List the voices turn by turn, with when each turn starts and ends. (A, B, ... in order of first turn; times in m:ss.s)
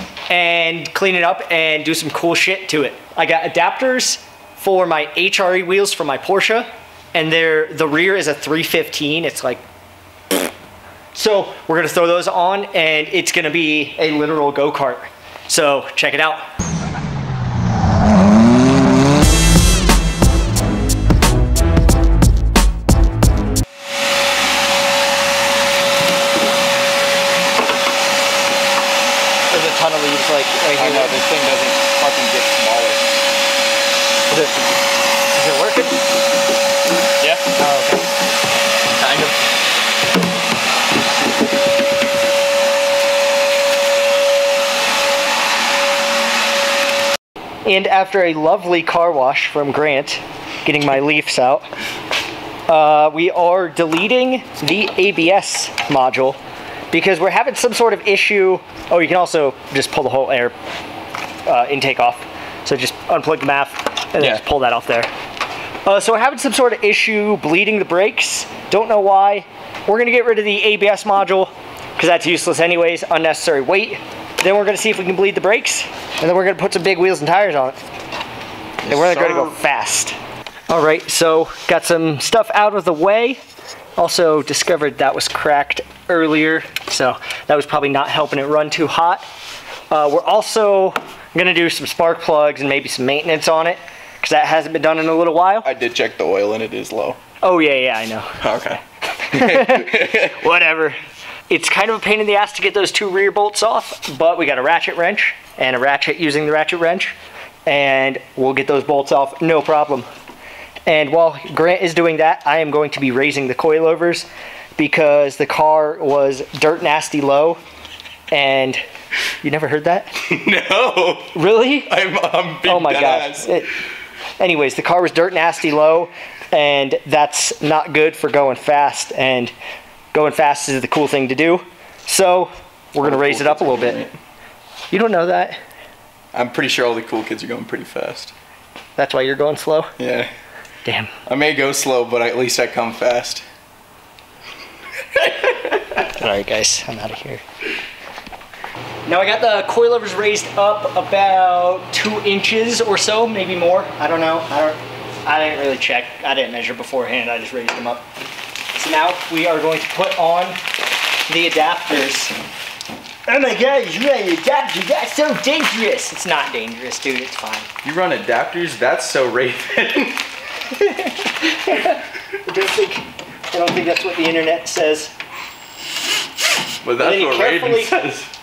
0:00.3-0:09.6 A
0:11.1-0:16.4 A
0:29.5-0:31.1 A
0:30.7-0:33.1 B
0:34.3-0:34.6 B
0:35.3-0:36.0 A
0:37.6-0:38.1 A
0:38.9-0:39.3 B
0:47.6-0:51.7 A
0:52.7-0:56.4 A
0:56.9-1:00.5 A
1:01.4-1:05.1 A
1:05.8-1:17.8 A
1:18.8-1:19.5 B
1:18.9-1:20.2 A
1:20.7-1:23.4 A
1:24.0-1:29.2 A
1:29.9-1:35.7 A
1:35.6-1:37.2 B
1:37.4-1:38.4 A
1:38.4-1:40.4 B
1:39.2-1:50.1 A
1:50.8-1:57.6 A
1:58.3-1:58.8 A
1:59.4-2:00.1 A
2:00.2-2:03.5 B
2:01.3-2:01.9 A
2:02.6-2:03.7 A
2:04.4-2:09.5 A
2:10.1-2:14.0 A
2:13.0-2:14.2 B
2:14.9-2:15.6 A
2:16.3-2:18.3 B
2:19.0-2:19.9 A
2:20.0-2:20.3 B
2:20.8-2:21.1 A
2:21.2-2:23.4 B
2:25.2-2:25.9 B
2:26.0-2:27.4 A
2:29.1-2:38.0 A
2:38.7-2:40.6 A
2:41.3-2:42.3 A
2:43.3-2:47.7 A
2:47.8-2:50.2 B
2:50.7-2:55.1 A
2:56.8-2:58.3 B
2:57.0-2:58.0 A